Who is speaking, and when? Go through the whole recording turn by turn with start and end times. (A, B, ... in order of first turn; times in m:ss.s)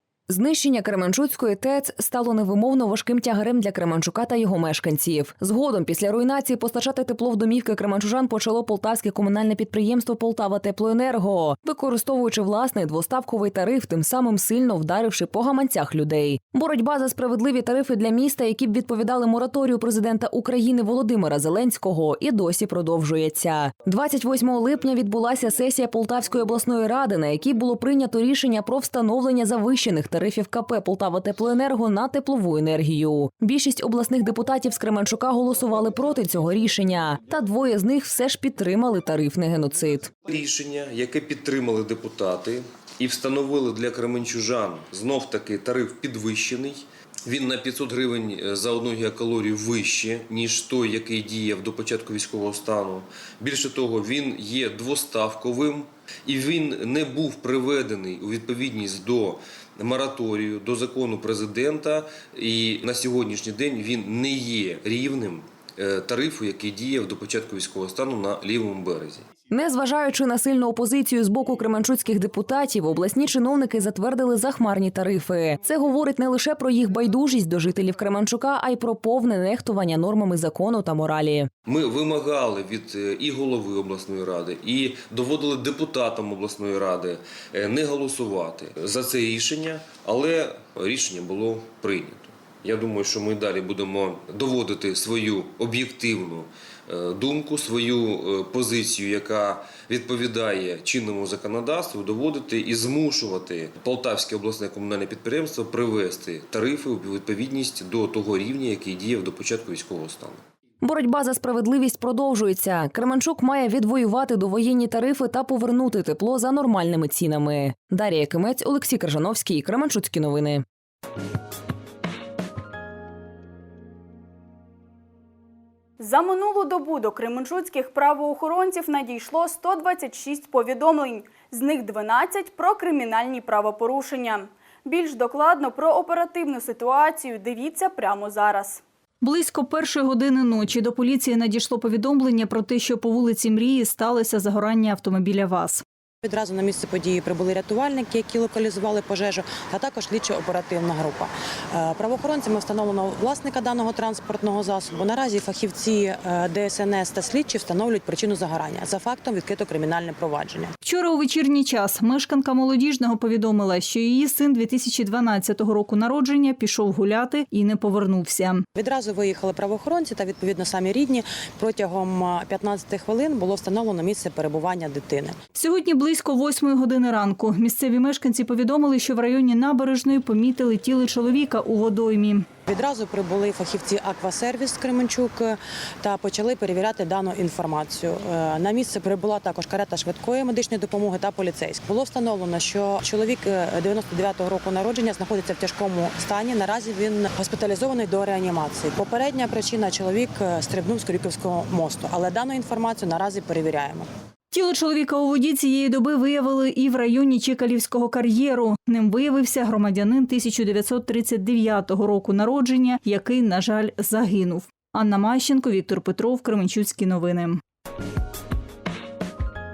0:00.3-0:40.2 A
0:40.2-1:09.2 B
1:09.5-1:21.5 A
1:21.7-1:50.4 B
1:50.8-2:00.6 A
2:06.0-2:18.8 C
2:19.2-2:25.8 D
2:26.2-2:40.7 E
2:40.8-2:48.7 D
2:48.8-2:55.4 E
2:55.5-3:02.5 D
3:02.7-3:24.1 E
3:24.5-3:37.6 D